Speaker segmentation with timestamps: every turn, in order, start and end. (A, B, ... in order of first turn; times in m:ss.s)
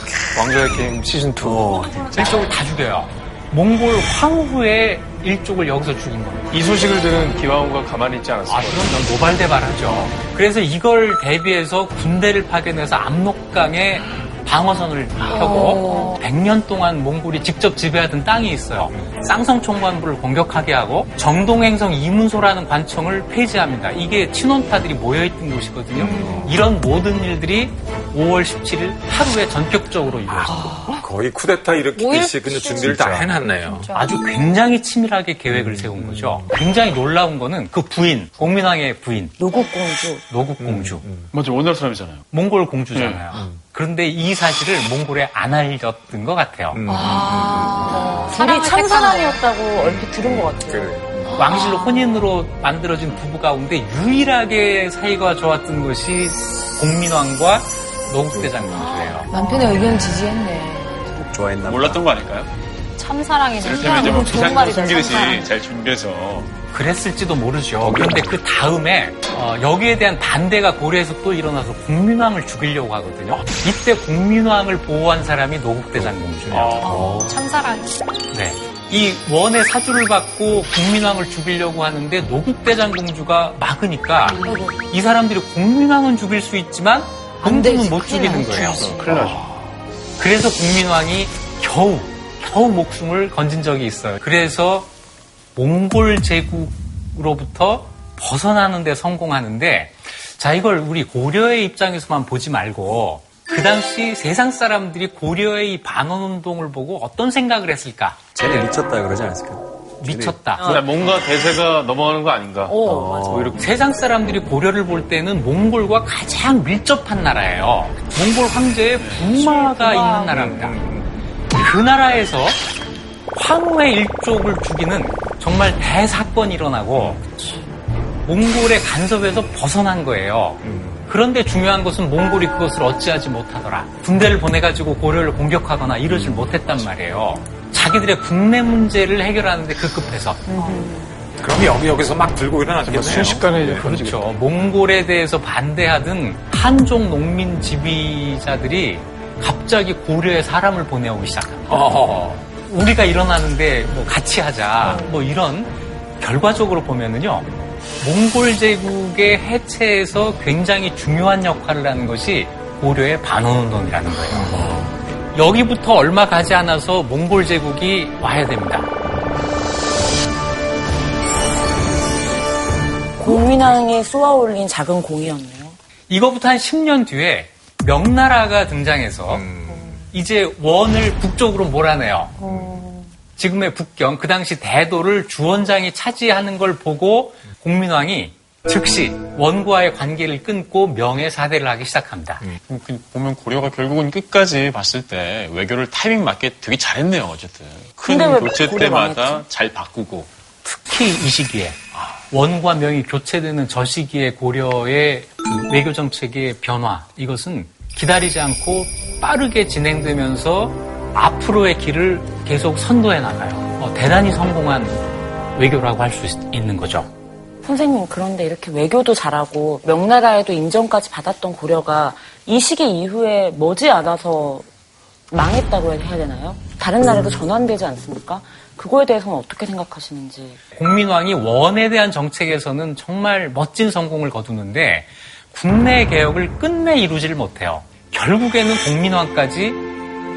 0:00.1-0:00.6 A
0:00.3-0:02.1 B
0:01.4-0:02.1 A
0:02.1-0:06.5 C
0:06.5-0:10.0 B
0:08.5-0:30.8 C
0:15.3-0:16.2 D
0:15.3-0:16.1 E
0:26.0-0:26.6 F
0:26.1-0:26.4 D
0:26.2-0:26.5 E
0:30.5-0:33.9 F
0:30.6-0:31.0 E
0:32.0-0:33.0 E
0:32.0-0:33.0 D
0:32.9-0:33.3 A
0:33.6-0:34.2 D
0:34.0-0:39.4 C
0:35.5-0:36.5 F
0:39.4-0:40.2 G
0:40.3-0:41.0 C
0:40.6-0:41.3 F
0:41.3-0:42.2 H
0:42.3-0:46.8 C
0:42.9-0:43.3 H
0:43.3-0:43.6 F
0:46.7-0:48.1 F
0:46.9-0:48.9 E
0:47.9-0:49.4 D
0:48.2-0:51.0 G
0:49.8-0:51.5 F
0:51.3-0:52.1 E
0:51.3-0:59.3 C
0:58.7-1:01.3 E
1:01.3-1:02.0 A
1:01.7-1:02.5 H
1:03.0-1:05.3 D
1:03.6-1:06.5 H
1:03.8-1:05.4 E
1:06.7-1:16.9 C
1:07.8-1:08.3 H
1:16.0-1:16.8 F
1:16.5-1:17.4 H
1:16.8-1:17.9 D
1:17.0-1:17.3 A
1:18.3-1:29.0 C
1:24.4-1:24.7 E
1:27.4-1:29.3 E
1:28.8-1:29.4 B
1:30.2-1:34.9 C
1:35.6-1:48.6 C
1:48.4-1:50.4 A
1:50.0-1:50.7 C
1:50.6-1:50.9 G
1:50.6-1:53.6 B
1:52.7-1:53.4 G
1:52.8-1:53.6 A
1:53.6-2:00.8 C
1:59.0-1:59.4 H
2:00.3-2:01.1 F
2:01.5-2:02.6 C
2:03.3-2:07.2 C
2:08.2-2:20.4 C
2:10.6-2:11.1 F
2:20.5-2:21.1 E
2:20.6-2:20.9 D
2:21.4-2:23.5 F
2:22.8-2:24.3 B
2:23.7-2:31.9 C
2:31.7-2:32.4 F
2:32.6-2:37.5 C
2:38.0-2:48.9 C
2:44.3-2:44.9 F
2:53.2-2:55.8 G
2:56.1-2:59.5 C
2:59.3-3:00.0 F
3:00.1-3:02.4 C
3:02.4-3:02.8 F
3:02.4-3:02.9 E
3:03.4-3:12.5 C
3:12.7-3:20.3 H
3:18.0-3:19.5 G
3:20.6-3:21.8 C
3:22.3-3:35.0 C
3:35.6-3:37.1 C
3:37.6-3:44.7 G
3:45.3-3:50.6 G
3:50.8-3:59.8 C